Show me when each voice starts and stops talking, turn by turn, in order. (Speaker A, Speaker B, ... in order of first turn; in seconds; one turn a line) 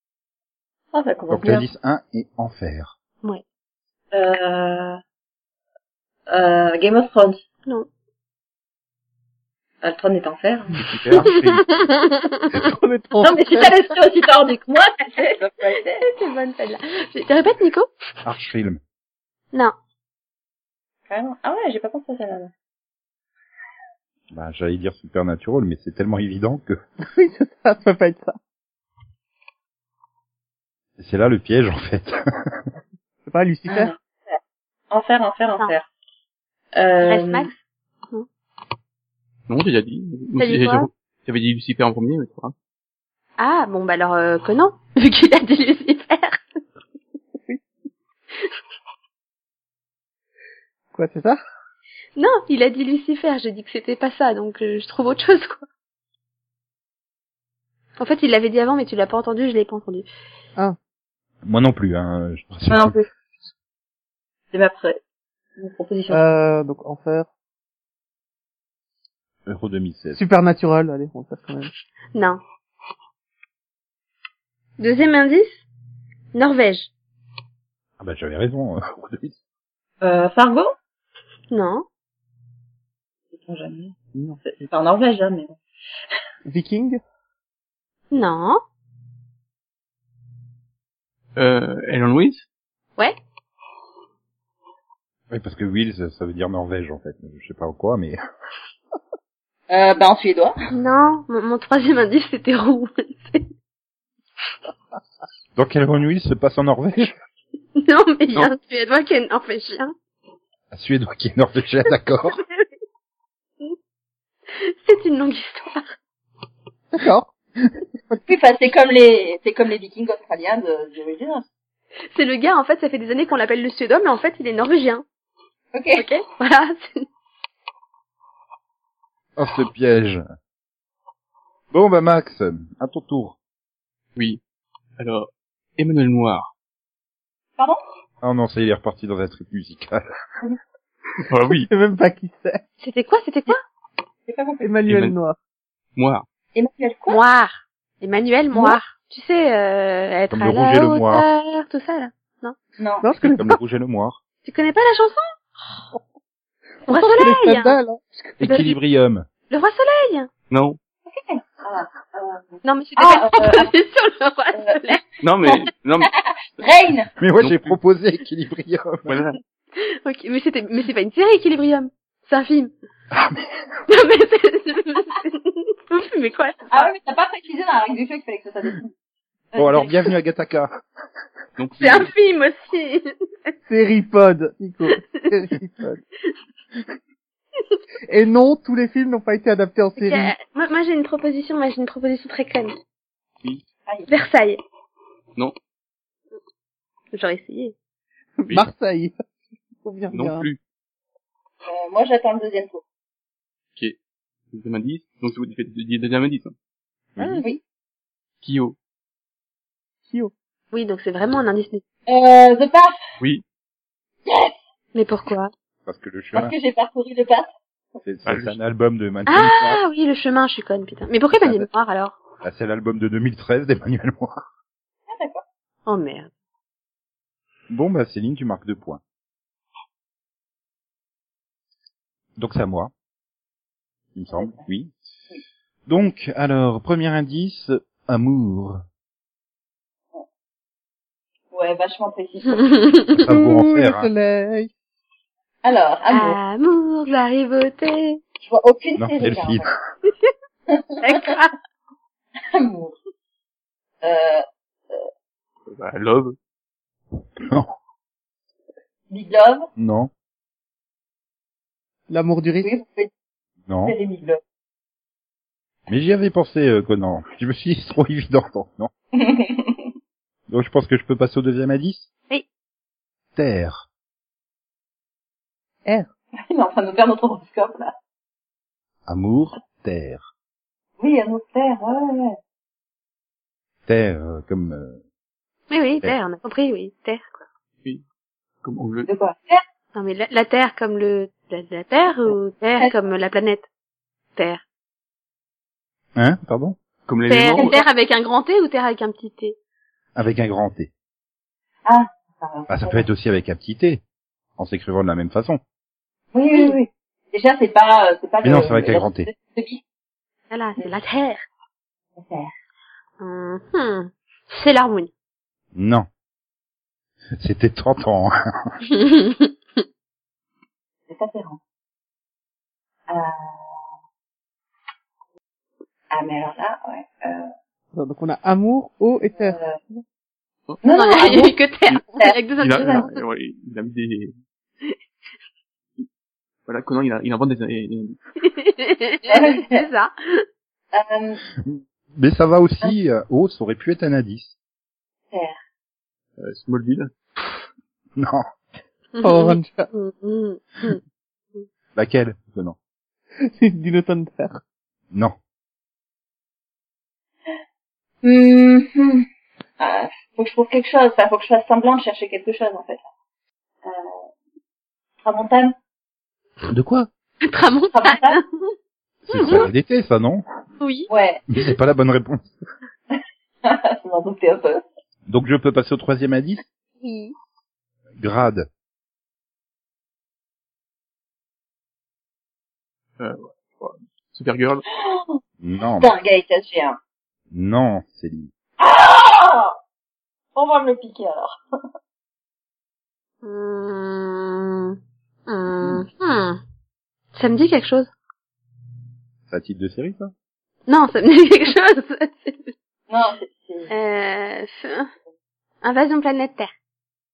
Speaker A: 0.9-1.7
Speaker B: 1.3-2.9
Speaker A: 4.1-5.0
Speaker A: 6.3-7.4
Speaker A: 9.8-10.7
Speaker C: 10.8-11.7
Speaker D: 11.3-12.4
Speaker E: 12.5-13.8
Speaker A: 13.2-16.0
Speaker D: 16.0-17.9
Speaker B: 18.2-18.8
Speaker A: 21.1-22.5
Speaker B: 24.3-26.8
Speaker E: 27.0-28.4
Speaker B: 31.0-32.6
Speaker E: 33.3-33.9
Speaker A: 33.7-34.4
Speaker A: 34.9-35.9
Speaker A: 36.7-37.5
Speaker D: 37.0-37.5
Speaker C: 39.5-42.5
Speaker D: 40.4-40.9
Speaker D: 43.4-46.4
Speaker E: 50.9-51.4
Speaker D: 52.2-55.6
Speaker D: 58.0-60.1
Speaker B: 61.4-63.0
Speaker A: 62.7-63.0
Speaker A: 64.5-65.0
Speaker A: 65.6-66.2
Speaker E: 66.1-67.3
Speaker B: 69.5-70.2
Speaker E: 70.1-71.7
Speaker D: 72.1-72.4
Speaker D: 74.8-75.6
Speaker D: 76.3-76.9
Speaker B: 78.0-79.4
Speaker A: 80.0-80.7
Speaker D: 81.5-81.8
Speaker A: 83.3-85.6
Speaker E: 86.4-87.0
Speaker D: 88.1-88.6
Speaker C: 91.3-92.5
Speaker B: 95.3-98.2
Speaker A: 99.7-100.5
Speaker D: 100.7-103.5
Speaker B: 105.5-107.1
Speaker D: 107.8-109.9
Speaker B: 110.7-112.4
Speaker D: 112.3-112.7
Speaker D: 114.6-115.9
Speaker E: 116.9-117.3
Speaker A: 118.3-121.5
Speaker D: 122.1-125.0
Speaker A: 125.7-126.0
Speaker D: 125.9-127.0
Speaker B: 129.4-130.2
Speaker B: 131.7-133.3
Speaker C: 135.0-136.5
Speaker B: 138.2-140.1
Speaker C: 141.3-141.7
Speaker E: 141.6-142.6
Speaker D: 142.8-143.6
Speaker A: 144.2-144.8
Speaker E: 144.6-145.3
Speaker C: 144.8-145.2
Speaker C: 145.9-146.2
Speaker A: 146.5-147.2
Speaker D: 147.1-152.6
Speaker B: 150.3-151.2
Speaker A: 152.8-153.0
Speaker E: 153.0-153.6
Speaker B: 153.2-154.2
Speaker D: 154.4-155.2
Speaker E: 156.9-158.4
Speaker D: 156.9-157.8
Speaker B: 158.4-159.3
Speaker D: 158.4-158.7
Speaker D: 159.5-160.3
Speaker C: 160.5-160.8
Speaker A: 161.1-163.7
Speaker D: 162.6-165.0
Speaker C: 165.2-166.1
Speaker A: 166.6-167.1
Speaker B: 167.2-169.2
Speaker C: 167.4-167.8
Speaker C: 169.1-169.4
Speaker D: 169.8-172.7
Speaker B: 173.1-173.5
Speaker D: 173.9-176.9
Speaker A: 176.7-178.9
Speaker A: 179.5-180.0
Speaker B: 179.6-180.7
Speaker C: 181.6-182.1
Speaker D: 181.8-183.5
Speaker E: 183.7-186.0
Speaker E: 188.1-190.3
Speaker D: 190.0-192.7
Speaker D: 194.1-194.6
Speaker D: 197.1-197.7
Speaker E: 198.4-199.1
Speaker E: 199.8-200.5
Speaker C: 200.1-200.6
Speaker A: 201.7-202.8
Speaker C: 204.5-206.5
Speaker B: 207.2-207.4
Speaker C: 208.4-208.8
Speaker D: 210.7-211.8
Speaker A: 212.1-212.9
Speaker A: 214.2-214.6
Speaker D: 214.9-215.5
Speaker B: 215.8-216.5
Speaker A: 216.3-217.5
Speaker B: 218.0-219.8
Speaker C: 218.2-218.6
Speaker D: 219.3-222.2
Speaker B: 221.3-221.7
Speaker B: 222.4-224.4
Speaker A: 225.1-225.4
Speaker D: 225.8-226.3
Speaker B: 227.7-229.0
Speaker B: 232.4-232.9
Speaker B: 234.1-234.9
Speaker A: 234.3-234.6
Speaker B: 235.9-238.8
Speaker A: 241.5-242.9
Speaker B: 243.2-244.1
Speaker E: 243.3-244.7
Speaker A: 245.6-246.4
Speaker D: 246.1-248.2
Speaker A: 248.4-249.6
Speaker B: 249.0-249.8
Speaker A: 250.7-251.2
Speaker D: 251.0-251.5
Speaker A: 252.5-252.9
Speaker A: 254.0-255.0
Speaker C: 255.7-256.4
Speaker B: 257.4-257.7
Speaker A: 259.1-259.7
Speaker B: 259.8-260.1
Speaker E: 262.1-262.7
Speaker A: 262.6-263.1
Speaker B: 263.7-263.9
Speaker A: 263.8-264.4
Speaker B: 265.9-268.9
Speaker A: 269.1-269.9
Speaker B: 270.5-272.1
Speaker B: 273.4-273.9
Speaker A: 276.5-277.9
Speaker B: 279.1-280.3
Speaker A: 281.0-282.4
Speaker B: 283.9-285.0
Speaker D: 285.7-287.4
Speaker C: 288.6-289.1
Speaker A: 289.1-289.6
Speaker D: 289.9-293.6
Speaker D: 294.4-294.6
Speaker B: 296.1-296.8
Speaker C: 297.1-297.8
Speaker D: 297.3-299.6
Speaker A: 297.6-297.8
Speaker B: 300.1-300.9
Speaker A: 301.9-303.1
Speaker B: 302.7-304.0
Speaker B: 304.6-305.6
Speaker A: 306.3-309.8
Speaker D: 306.5-306.8
Speaker B: 308.4-309.3
Speaker D: 310.5-311.4
Speaker A: 312.1-312.5
Speaker D: 313.2-315.1
Speaker B: 315.7-316.1
Speaker B: 317.4-318.7
Speaker D: 318.9-319.5
Speaker A: 321.1-321.6
Speaker A: 323.1-323.9
Speaker A: 326.1-327.5
Speaker E: 327.9-329.6
Speaker A: 329.4-329.8
Speaker A: 330.8-331.6
Speaker D: 330.9-333.2
Speaker A: 332.2-333.1
Speaker C: 332.6-334.4
Speaker C: 336.6-338.2
Speaker D: 338.4-340.4
Speaker A: 339.3-339.9
Speaker A: 340.9-341.4
Speaker B: 341.6-344.5
Speaker A: 345.3-345.6
Speaker C: 346.4-347.1
Speaker B: 348.1-348.4
Speaker D: 349.1-351.0
Speaker E: 349.2-349.9
Speaker B: 351.9-352.8
Speaker E: 353.6-354.6
Speaker A: 358.2-359.2
Speaker A: 359.8-363.0
Speaker A: 363.8-364.2
Speaker A: 365.2-365.7
Speaker B: 366.7-367.1
Speaker D: 367.4-368.5
Speaker A: 367.9-368.4
Speaker B: 369.3-370.4
Speaker D: 369.3-369.7
Speaker D: 370.8-371.1
Speaker A: 371.1-371.4
Speaker B: 371.5-372.5
Speaker A: 373.1-374.8
Speaker B: 375.3-376.6
Speaker D: 377.0-377.3
Speaker B: 378.2-378.7
Speaker C: 383.2-384.8
Speaker A: 384.9-385.4
Speaker B: 385.6-386.1
Speaker A: 386.0-387.0
Speaker B: 387.5-388.5
Speaker A: 388.8-389.7
Speaker A: 390.5-391.6
Speaker D: 393.4-396.6
Speaker D: 397.3-398.1
Speaker B: 399.5-400.3
Speaker D: 400.9-402.7
Speaker A: 403.1-403.9
Speaker D: 403.9-405.1
Speaker D: 405.8-406.7